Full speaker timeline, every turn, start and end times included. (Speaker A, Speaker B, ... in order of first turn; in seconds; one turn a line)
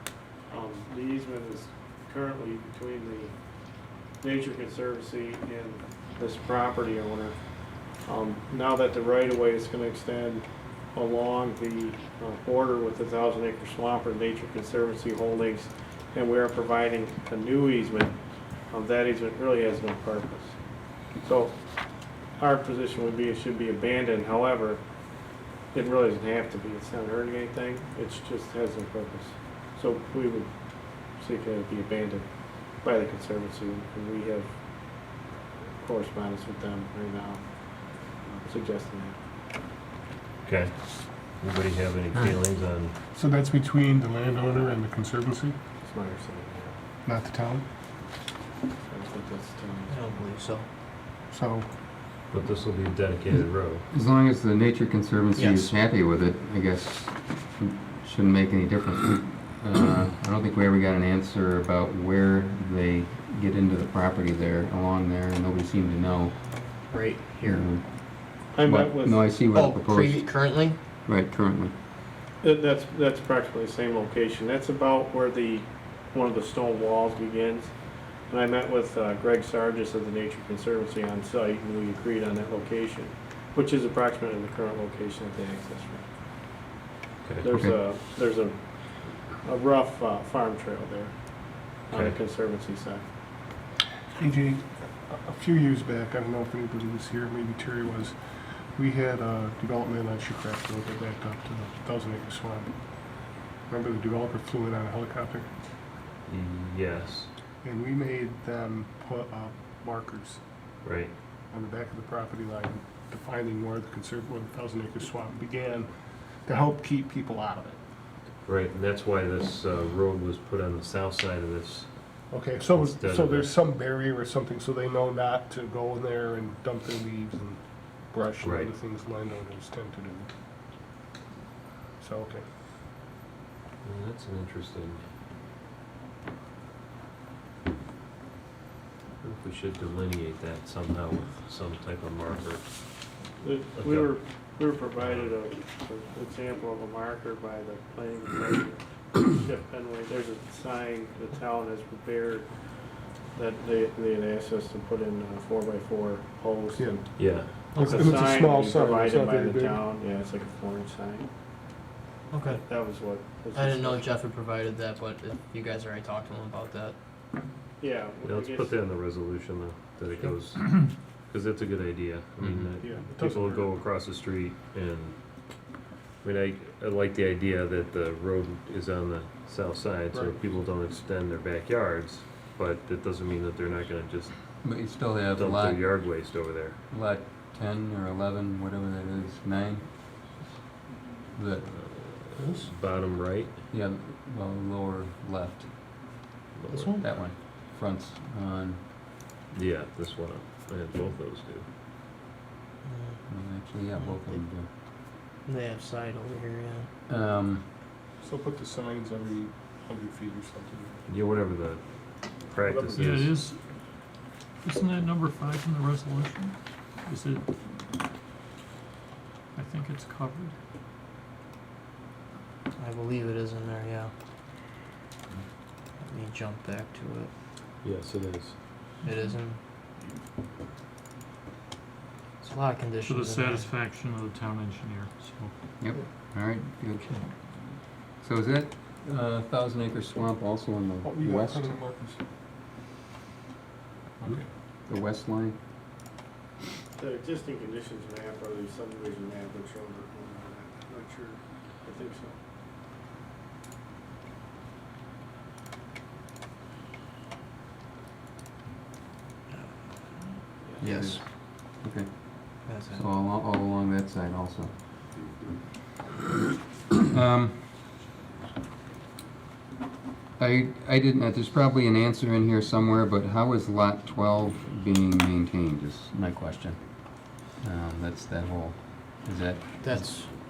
Speaker A: 0.5-3.3
Speaker A: 4.2-7.4
Speaker A: 8.1-18.2
Speaker A: 18.7-20.6
Speaker A: 21.2-21.6
Speaker A: 22.4-24.8
Speaker A: 25.7-30.5
Speaker A: 31.2-32.3
Speaker A: 32.8-34.5
Speaker A: 35.8-37.4
Speaker A: 38.2-39.2
Speaker B: 40.5-40.7
Speaker B: 41.3-42.9
Speaker C: 43.1-45.6
Speaker A: 45.8-46.8
Speaker C: 47.0-47.7
Speaker A: 48.9-50.2
Speaker D: 49.9-50.7
Speaker C: 51.3-51.7
Speaker B: 52.3-53.9
Speaker E: 53.9-66.3
Speaker D: 55.4-55.7
Speaker D: 66.7-67.7
Speaker E: 67.4-71.7
Speaker A: 68.5-69.2
Speaker D: 69.5-70.8
Speaker A: 72.4-77.7
Speaker A: 78.3-86.0
Speaker A: 87.4-91.2
Speaker A: 91.9-93.1
Speaker B: 91.9-92.2
Speaker C: 94.2-98.2
Speaker C: 98.8-102.8
Speaker C: 103.7-105.5
Speaker B: 106.3-107.3
Speaker C: 107.6-110.4
Speaker B: 110.8-111.1
Speaker C: 111.5-115.9
Speaker C: 116.5-117.8
Speaker B: 118.5-121.9
Speaker C: 122.3-130.3
Speaker B: 122.6-123.5
Speaker B: 128.4-128.7
Speaker C: 132.0-132.4
Speaker B: 133.8-135.0
Speaker B: 139.2-142.7
Speaker A: 143.4-152.5
Speaker B: 143.8-144.1
Speaker B: 145.0-145.3
Speaker A: 153.3-161.3
Speaker C: 156.8-159.8
Speaker B: 157.2-157.5
Speaker D: 157.8-158.1
Speaker D: 162.3-162.6
Speaker A: 162.4-164.1
Speaker D: 163.5-167.0
Speaker A: 167.8-168.8
Speaker B: 168.2-175.2
Speaker C: 172.8-173.8
Speaker B: 176.2-184.3
Speaker C: 180.1-180.4
Speaker E: 184.6-185.9
Speaker B: 185.3-186.8
Speaker E: 186.9-190.3
Speaker E: 191.3-191.7
Speaker B: 191.7-193.5
Speaker E: 193.7-195.7
Speaker B: 196.6-196.9
Speaker D: 196.7-197.1
Speaker E: 197.0-198.8
Speaker B: 199.5-201.7
Speaker D: 202.8-203.2
Speaker E: 203.3-204.7
Speaker D: 204.0-204.4
Speaker D: 205.4-206.9
Speaker E: 207.1-207.7
Speaker C: 208.2-211.0
Speaker B: 211.1-213.3
Speaker C: 212.6-213.0
Speaker F: 213.0-213.6
Speaker F: 214.6-217.5
Speaker F: 219.6-220.6
Speaker D: 222.8-224.1
Speaker D: 226.0-227.3
Speaker B: 227.8-228.6
Speaker D: 229.0-229.6
Speaker D: 232.4-233.7
Speaker F: 233.1-235.5
Speaker E: 235.8-237.2
Speaker E: 238.2-241.7
Speaker C: 241.0-242.2
Speaker C: 244.2-244.5
Speaker E: 244.9-245.6
Speaker A: 247.0-252.4
Speaker D: 260.8-261.2
Speaker E: 260.8-261.2
Speaker E: 261.8-264.8
Speaker D: 262.7-263.0
Speaker E: 267.1-267.6
Speaker E: 270.4-280.2
Speaker D: 279.8-280.3